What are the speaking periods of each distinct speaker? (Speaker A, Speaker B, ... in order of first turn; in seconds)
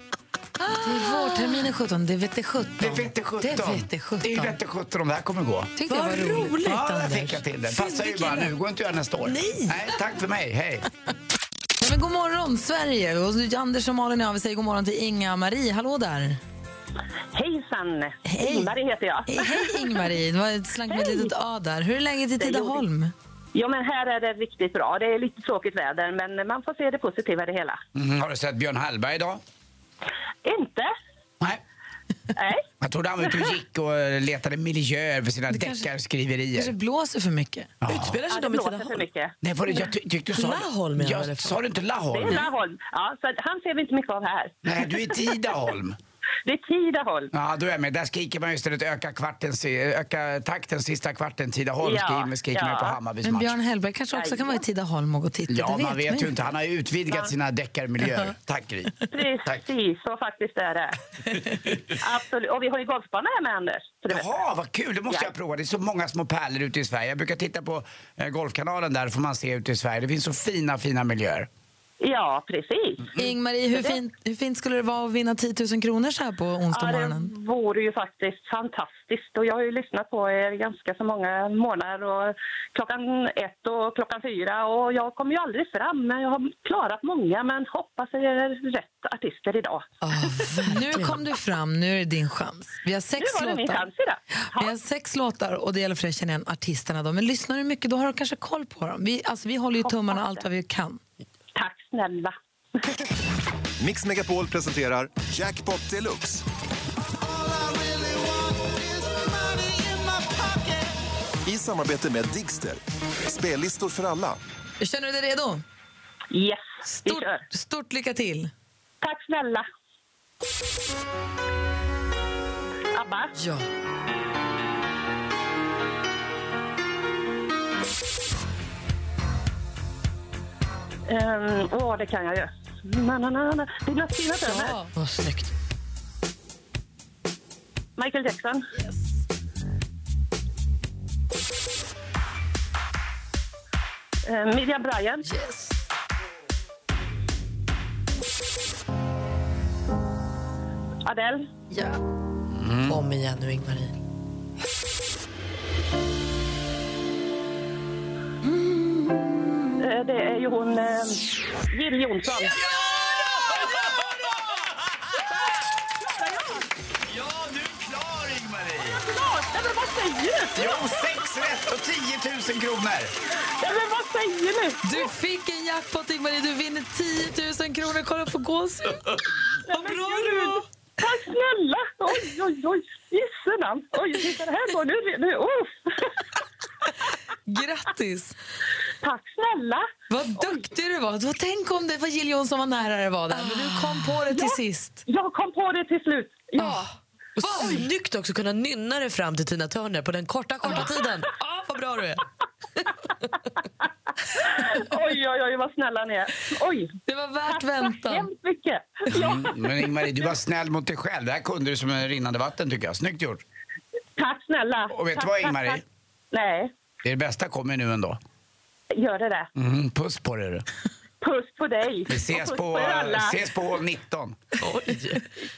Speaker A: 0.6-4.6, 5.8-6.6, 11.8-16.4, 18.2-18.7, 19.2-23.1, 35.5-35.9, 36.5-37.7, 53.2-56.4, 73.1-77.3, 90.3-101.0, 114.8-115.6, 116.8-118.5, 123.3-123.7, 134.4-134.9, 138.8-139.0, 145.2-145.7, 151.7-152.0, 158.5-159.1, 174.8-179.0, 179.7-180.6, 187.5-188.3, 190.1-195.0, 196.6-196.8, 197.4-197.8, 207.1-208.3
Speaker B: 1.0-1.5, 5.9-8.5, 9.2-9.9, 37.9-39.0, 40.3-41.6, 90.0-91.2, 134.9-135.5, 152.8-153.9, 193.3-194.2, 197.4-202.2, 224.6-225.2
Speaker C: 2.8-5.7, 6.6-10.8, 27.9-29.4, 32.8-36.7, 37.8-38.2, 39.4-42.5, 44.6-46.0, 47.3-53.5, 55.5-59.6, 64.1-71.5, 152.5-153.0, 162.4-164.0, 167.0-169.0, 170.5-173.1, 209.1-213.4, 214.9-215.8, 217.0-218.2, 219.5-220.7, 222.1-224.4
Speaker D: 17.3-20.0, 20.9-21.3, 22.4-22.8, 23.5-27.8, 30.4-30.9, 32.4-32.7, 38.3-39.3, 42.1-45.1, 46.4-47.3, 51.8-53.0, 54.1-54.6, 59.1-61.0, 62.0-64.3, 72.0-73.1, 76.7-89.9, 93.2-94.7, 99.8-100.4, 101.5-102.8, 116.3-117.4, 119.0-119.7, 122.9-123.3, 131.1-134.7, 138.0-138.7, 144.2-145.2, 151.0-151.5, 159.8-162.5, 166.0-166.7, 169.0-170.7, 173.6-174.8, 179.7-186.1, 189.0-190.6, 194.3-196.9, 204.3-206.9, 207.5-209.6, 214.2-215.8, 216.3-216.7, 218.9-219.5, 221.2-223.4
Speaker E: 103.8-106.4, 107.2-114.4